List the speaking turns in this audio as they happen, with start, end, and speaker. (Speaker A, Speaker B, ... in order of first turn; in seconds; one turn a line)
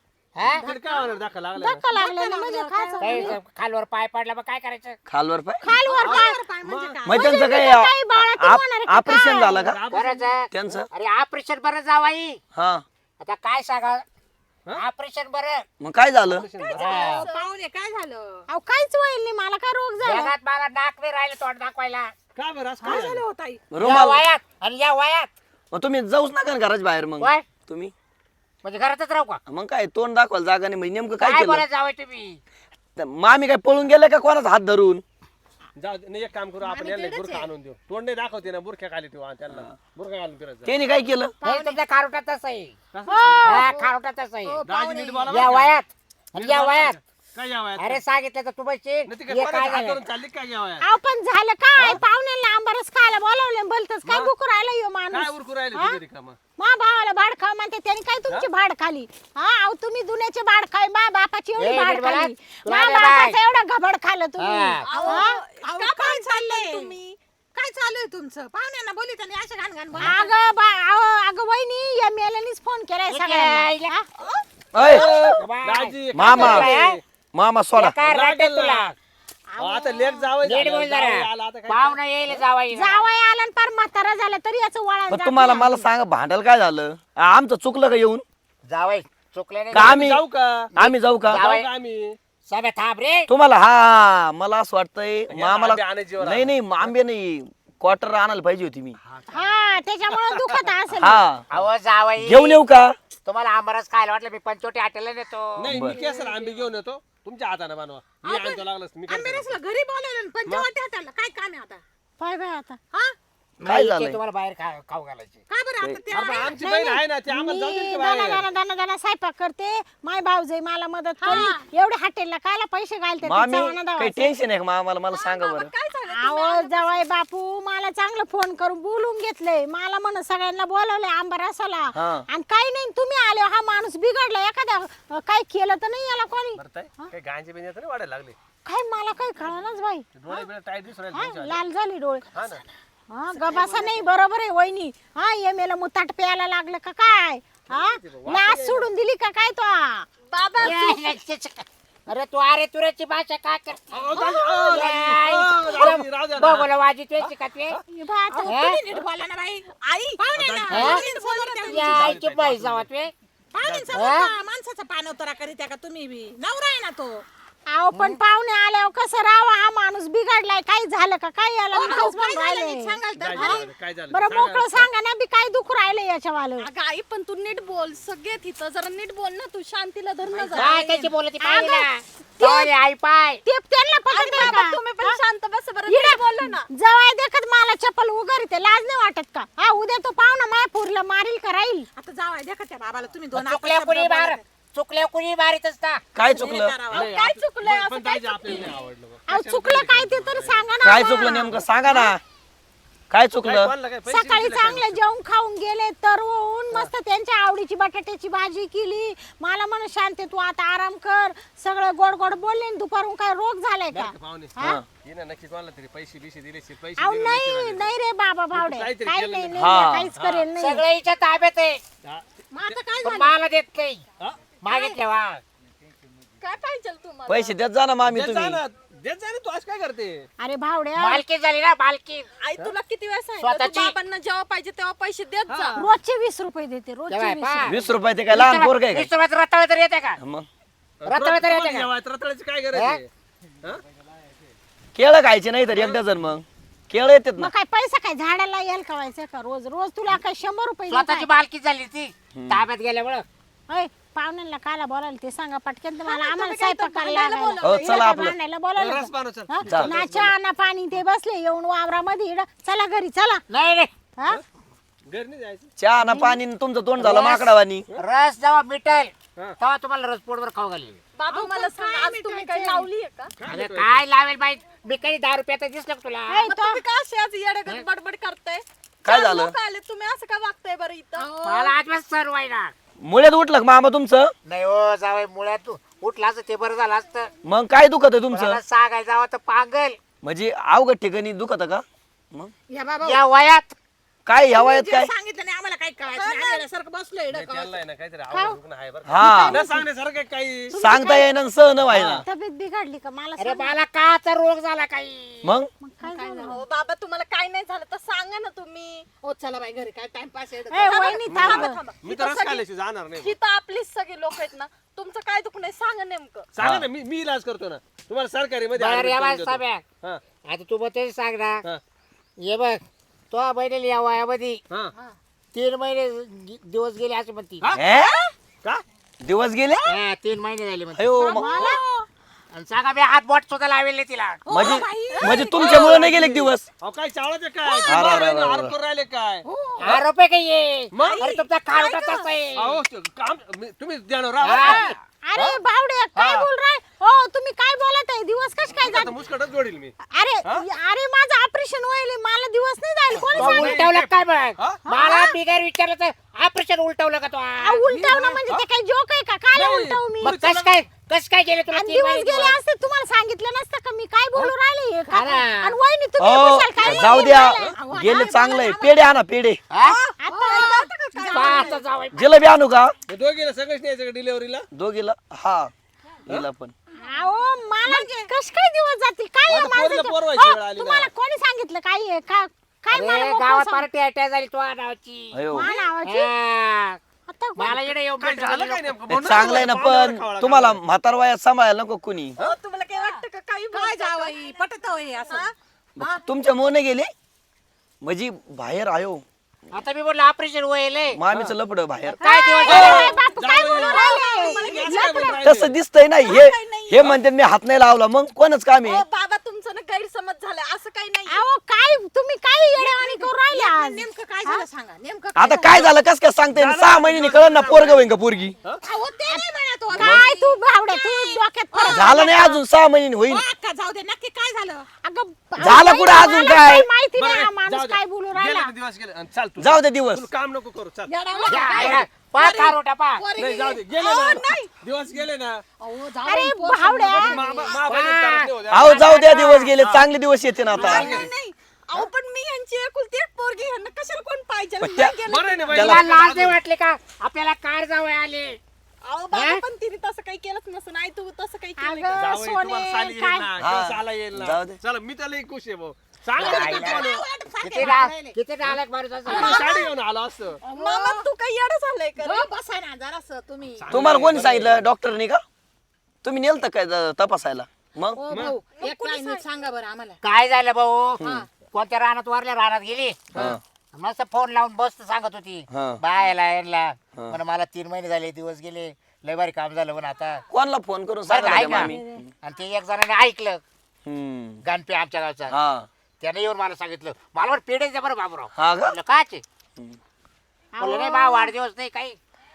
Speaker A: 0.3-0.6
Speaker B: 0.6-1.8
Speaker C: 0.6-3.4
Speaker D: 1.9-3.3
Speaker A: 3.0-5.0
Speaker E: 5.1-5.7
Speaker C: 5.6-6.4
Speaker D: 5.8-7.5
Speaker B: 6.6-7.0
Speaker E: 7.0-9.8
Speaker C: 7.1-9.7
Speaker B: 9.6-10.3
Speaker A: 9.9-12.4
Speaker E: 10.5-10.9
Speaker E: 12.5-12.8
Speaker A: 13.2-14.1
Speaker A: 14.7-15.7
Speaker E: 15.8-16.5
Speaker B: 16.2-16.9
Speaker F: 16.6-17.5
Speaker D: 16.6-18.4
Speaker A: 16.8-17.2
Speaker C: 18.5-20.3
Speaker A: 20.0-22.1
Speaker B: 22.3-23.2
Speaker D: 22.8-23.6
Speaker E: 23.7-24.2
Speaker A: 23.8-25.3
Speaker E: 25.7-27.9
Speaker A: 27.2-27.5
Speaker A: 28.6-29.4
Speaker E: 29.5-31.6
Speaker A: 31.2-32.4
Speaker E: 33.0-35.0
Speaker B: 35.8-40.7
Speaker D: 36.6-37.5
Speaker E: 40.6-41.3
Speaker A: 41.4-42.8
Speaker B: 42.9-43.9
Speaker C: 43.1-43.7
Speaker A: 43.4-44.6
Speaker D: 44.4-45.3
Speaker B: 44.7-45.7
Speaker A: 45.3-47.0
Speaker B: 46.3-48.0
Speaker A: 47.8-50.0
Speaker B: 49.1-50.8
Speaker C: 50.8-56.0
Speaker B: 51.8-52.0
Speaker B: 54.0-54.3
Speaker B: 55.1-56.4
Speaker C: 56.6-65.4
Speaker A: 61.6-63.4
Speaker A: 64.4-64.9
Speaker F: 64.8-67.2
Speaker D: 64.8-67.0
Speaker D: 67.5-70.2
Speaker C: 70.0-74.0
Speaker A: 73.1-73.9
Speaker E: 74.7-75.3
Speaker B: 74.8-77.0
Speaker A: 74.9-77.0
Speaker E: 76.1-76.7
Speaker E: 77.3-77.9
Speaker A: 77.7-78.9
Speaker B: 78.0-78.9
Speaker C: 79.5-80.3
Speaker B: 79.6-82.4
Speaker A: 80.4-83.1
Speaker C: 82.7-85.9
Speaker E: 85.1-88.2
Speaker A: 88.7-90.0
Speaker E: 89.7-90.2
Speaker B: 89.7-90.7
Speaker A: 90.7-91.7
Speaker E: 90.8-91.4
Speaker B: 91.3-92.2
Speaker A: 92.5-93.3
Speaker E: 93.3-99.0
Speaker B: 95.3-96.5
Speaker B: 99.0-99.6
Speaker C: 99.3-101.2
Speaker B: 100.1-100.6
Speaker E: 101.0-101.4
Speaker A: 101.5-102.6
Speaker E: 102.2-103.0
Speaker A: 103.2-105.7
Speaker B: 105.5-109.6
Speaker E: 105.7-106.0
Speaker D: 105.8-106.5
Speaker D: 108.2-111.8
Speaker C: 112.2-112.8
Speaker A: 113.6-115.4
Speaker E: 113.6-114.2
Speaker D: 115.5-117.0
Speaker B: 116.1-118.5
Speaker C: 116.4-124.3
Speaker D: 121.2-121.6
Speaker F: 121.3-121.6
Speaker E: 123.2-125.7
Speaker F: 125.1-127.0
Speaker C: 126.1-137.1
Speaker E: 131.9-132.2
Speaker B: 136.6-138.3
Speaker C: 138.7-140.4
Speaker B: 140.1-141.6
Speaker C: 141.1-142.2
Speaker B: 142.3-142.6
Speaker C: 143.1-150.1
Speaker D: 143.4-144.0
Speaker B: 147.7-148.9
Speaker F: 150.3-151.1
Speaker A: 150.6-154.0
Speaker B: 153.9-156.7
Speaker F: 154.1-154.7
Speaker A: 154.7-157.8
Speaker B: 157.2-157.8
Speaker C: 157.9-158.6
Speaker D: 158.3-162.1
Speaker A: 158.4-158.8
Speaker C: 160.2-160.9
Speaker B: 160.3-160.9
Speaker A: 160.7-161.0
Speaker F: 160.9-162.1
Speaker A: 161.7-163.1
Speaker B: 161.9-162.8
Speaker D: 163.5-167.2
Speaker B: 163.6-163.9
Speaker A: 163.9-164.3
Speaker C: 167.7-176.7
Speaker A: 167.9-168.2
Speaker D: 171.7-173.7
Speaker B: 173.2-174.9
Speaker F: 176.6-180.8
Speaker D: 180.2-181.1
Speaker A: 180.5-183.4
Speaker C: 181.4-181.8
Speaker C: 182.4-182.7
Speaker C: 183.4-185.2
Speaker F: 184.1-186.7
Speaker C: 185.9-191.9
Speaker D: 191.9-194.4
Speaker A: 193.3-196.0
Speaker E: 196.1-196.8
Speaker D: 196.2-197.6
Speaker B: 196.9-200.7
Speaker C: 197.9-198.7
Speaker C: 199.3-202.1
Speaker E: 200.8-202.2
Speaker E: 203.1-203.7
Speaker B: 203.4-205.0
Speaker C: 204.1-214.8
Speaker B: 213.9-217.9
Speaker E: 214.6-214.8
Speaker C: 217.0-220.8
Speaker B: 218.5-219.6
Speaker E: 219.5-220.1
Speaker B: 220.2-220.5
Speaker A: 220.6-221.8
Speaker B: 222.0-222.8
Speaker D: 222.5-223.3
Speaker A: 223.0-224.0
Speaker A: 224.6-225.4
Speaker F: 226.4-227.6
Speaker E: 227.3-228.6
Speaker B: 228.0-230.2
Speaker C: 230.4-231.2
Speaker A: 230.9-232.3
Speaker F: 232.4-235.8
Speaker A: 233.4-233.9
Speaker B: 235.5-235.8
Speaker C: 235.7-237.8
Speaker A: 237.1-237.8
Speaker E: 237.7-239.1
Speaker A: 238.3-240.2
Speaker E: 240.2-240.5
Speaker B: 241.0-243.1
Speaker A: 241.0-241.9
Speaker A: 242.7-243.0
Speaker E: 244.9-247.5
Speaker B: 245.7-246.0
Speaker C: 247.4-251.3
Speaker A: 250.9-253.3
Speaker E: 252.3-252.7
Speaker C: 253.7-263.4
Speaker F: 256.1-258.2
Speaker E: 257.6-258.3
Speaker B: 258.8-260.3
Speaker E: 259.6-259.9
Speaker A: 263.5-263.9
Speaker B: 265.1-265.7
Speaker E: 265.8-267.9
Speaker A: 267.0-271.0
Speaker F: 271.1-273.3
Speaker C: 271.3-272.9
Speaker B: 273.4-274.0
Speaker A: 273.4-276.4
Speaker C: 276.3-276.8
Speaker F: 276.4-281.7
Speaker E: 279.0-279.5
Speaker A: 281.4-282.7
Speaker E: 283.0-284.3
Speaker A: 284.4-287.3
Speaker E: 287.4-288.6
Speaker A: 288.3-290.0
Speaker E: 290.2-292.5
Speaker D: 292.7-293.2
Speaker A: 293.0-293.7
Speaker E: 294.2-295.1
Speaker D: 294.5-297.8
Speaker F: 296.1-296.6
Speaker B: 297.3-300.8
Speaker E: 299.1-299.6
Speaker C: 299.2-299.6
Speaker D: 299.2-299.8
Speaker E: 300.7-302.2
Speaker C: 300.7-301.3
Speaker B: 301.9-302.2
Speaker C: 302.1-303.8
Speaker A: 303.4-305.5
Speaker E: 305.4-305.7
Speaker C: 305.8-306.6
Speaker F: 306.1-309.1
Speaker D: 306.1-306.6
Speaker D: 309.2-311.2
Speaker C: 310.7-311.8
Speaker F: 310.8-312.6
Speaker B: 311.3-313.3
Speaker F: 313.2-316.5
Speaker B: 316.5-320.2
Speaker E: 316.6-316.9
Speaker A: 318.7-319.8
Speaker A: 320.5-321.6
Speaker A: 322.4-324.6
Speaker A: 325.5-327.8
Speaker B: 327.6-327.9
Speaker E: 327.7-328.2
Speaker E: 329.2-329.9
Speaker A: 329.9-331.4
Speaker E: 330.9-331.6
Speaker D: 331.2-331.9
Speaker C: 331.3-332.0
Speaker A: 332.5-334.4
Speaker D: 334.4-335.9
Speaker F: 334.5-336.0
Speaker E: 334.5-336.7
Speaker B: 335.4-340.0
Speaker C: 337.7-338.2
Speaker E: 337.9-338.7
Speaker D: 339.4-340.0
Speaker A: 339.8-342.8
Speaker B: 340.9-341.3
Speaker F: 341.0-342.3
Speaker B: 342.6-345.0
Speaker A: 344.4-345.0
Speaker C: 344.6-349.1
Speaker B: 348.8-350.6
Speaker C: 350.1-353.8
Speaker A: 353.2-358.3
Speaker B: 353.2-354.8
Speaker C: 354.8-355.4
Speaker C: 357.6-360.4
Speaker D: 358.0-358.3
Speaker B: 359.5-360.7
Speaker A: 360.2-362.6
Speaker C: 361.7-368.8
Speaker A: 365.1-365.8
Speaker E: 366.2-369.6
Speaker D: 366.9-369.0
Speaker A: 369.7-370.0
Speaker F: 369.8-371.8
Speaker C: 370.2-371.8
Speaker D: 370.3-371.8
Speaker A: 371.3-372.4
Speaker E: 372.1-372.9
Speaker B: 373.1-374.6
Speaker E: 374.7-375.7
Speaker E: 376.3-376.7
Speaker C: 377.0-383.9
Speaker D: 377.8-378.3
Speaker B: 379.5-381.1
Speaker A: 382.9-385.5
Speaker E: 385.3-385.7
Speaker C: 385.5-386.3
Speaker A: 386.0-387.0
Speaker C: 387.3-387.9
Speaker A: 387.6-389.0
Speaker B: 388.2-390.8
Speaker E: 389.1-392.4
Speaker F: 392.4-394.6
Speaker D: 393.7-396.2
Speaker E: 396.0-397.1
Speaker E: 398.0-399.2
Speaker A: 399.7-401.2
Speaker E: 401.1-402.2
Speaker A: 402.2-403.0
Speaker C: 402.2-405.4
Speaker B: 402.6-405.8
Speaker F: 402.7-405.5
Speaker D: 402.7-403.2
Speaker D: 403.9-404.7
Speaker E: 405.4-409.0
Speaker F: 406.2-407.1
Speaker F: 408.8-411.4
Speaker C: 411.3-414.6
Speaker D: 412.8-415.9
Speaker E: 415.4-418.6
Speaker B: 416.5-418.1
Speaker D: 418.8-422.4
Speaker C: 419.3-422.6
Speaker E: 421.9-423.4
Speaker D: 423.3-424.9
Speaker C: 425.0-428.7
Speaker E: 425.6-426.9
Speaker B: 427.2-431.1
Speaker E: 429.6-430.3
Speaker F: 431.1-431.9
Speaker D: 431.2-433.8
Speaker A: 431.5-433.2
Speaker B: 431.8-432.0
Speaker B: 433.4-435.6
Speaker F: 433.9-434.7
Speaker D: 435.8-437.8
Speaker C: 436.2-437.4
Speaker B: 437.1-440.1
Speaker A: 437.9-438.5
Speaker E: 438.7-441.2
Speaker F: 438.8-439.5
Speaker D: 438.9-439.7
Speaker D: 440.7-441.2
Speaker F: 440.8-446.0
Speaker B: 440.8-441.3
Speaker E: 444.8-445.2
Speaker B: 445.2-446.6
Speaker E: 445.7-446.2
Speaker A: 445.7-448.6
Speaker F: 449.0-452.3
Speaker A: 449.3-449.6
Speaker C: 451.8-453.5
Speaker B: 452.1-457.2
Speaker E: 453.6-454.8
Speaker D: 456.4-458.4
Speaker A: 456.4-459.6
Speaker B: 458.6-460.6
Speaker F: 459.3-459.9
Speaker D: 460.6-461.3
Speaker F: 460.7-462.5
Speaker D: 462.2-464.0
Speaker B: 463.8-464.8
Speaker E: 463.9-465.4
Speaker E: 466.2-468.2
Speaker D: 468.1-470.2
Speaker F: 468.7-469.4
Speaker A: 470.2-480.4
Speaker D: 471.2-471.5
Speaker E: 473.3-473.6
Speaker E: 475.7-476.0
Speaker E: 480.5-482.3
Speaker A: 481.2-483.6
Speaker C: 481.4-482.2
Speaker E: 484.0-484.6
Speaker A: 484.6-485.5
Speaker E: 485.5-485.9
Speaker A: 486.2-489.4
Speaker E: 488.6-488.9
Speaker C: 490.7-491.5
Speaker A: 490.8-492.2